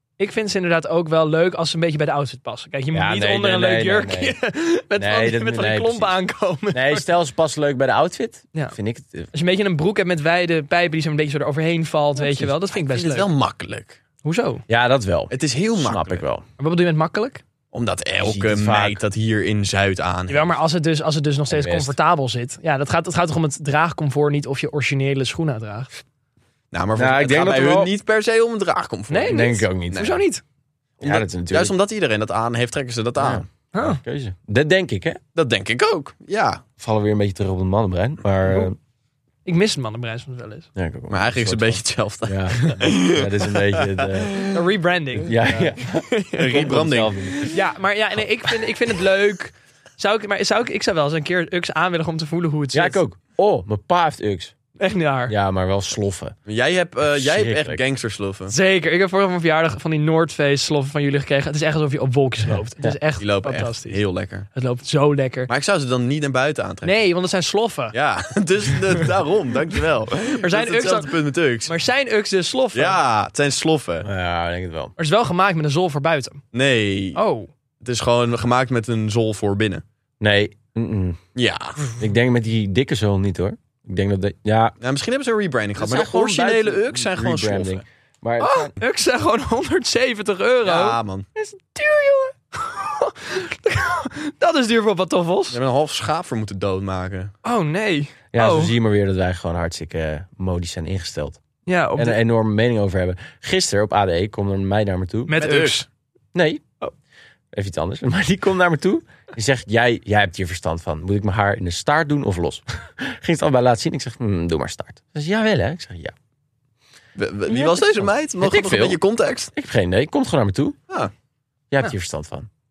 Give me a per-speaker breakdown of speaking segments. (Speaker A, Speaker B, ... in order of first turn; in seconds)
Speaker A: 0.2-7.1, 9.3-13.3, 14.2-14.6, 16.6-17.4, 20.3-25.9, 29.1-30.4, 33.7-34.0, 39.5-40.7, 44.5-45.4, 46.1-46.4, 47.4-53.0, 54.8-55.3, 58.5-64.0, 64.5-65.5, 66.8-68.0, 70.4-73.0, 75.0-76.4, 77.2-77.5, 88.4-95.6, 97.4-98.7, 101.7-102.2, 105.3-105.9
Speaker B: 2.9-4.4, 5.0-6.2, 6.7-9.3, 14.7-16.4, 18.2-19.0, 21.5-22.0, 27.0-27.9, 29.3-30.2, 31.0-31.8, 33.2-35.2, 36.8-38.8, 40.8-44.4, 45.2-47.5, 52.7-54.5, 55.3-56.4, 57.1-57.8, 62.5-63.0, 74.0-74.9, 80.2-81.2, 82.0-84.7, 85.8-88.7, 98.3-101.4, 102.0-105.4, 106.3-106.6, 107.5-116.1, 117.6-119.0, 119.5-120.8, 121.7-122.5
Speaker C: 12.2-14.0, 15.3-16.2, 17.7-20.5, 26.7-30.2, 31.0-33.4, 35.4-36.6, 41.1-44.5, 46.4-47.1, 56.5-58.5, 63.2-64.5, 65.5-67.0, 67.9-71.7, 72.7-74.1, 76.5-77.2, 77.8-79.8, 81.3-81.8, 84.8-87.8, 90.7-91.3, 95.5-97.3, 105.4-105.8, 117.2-119.5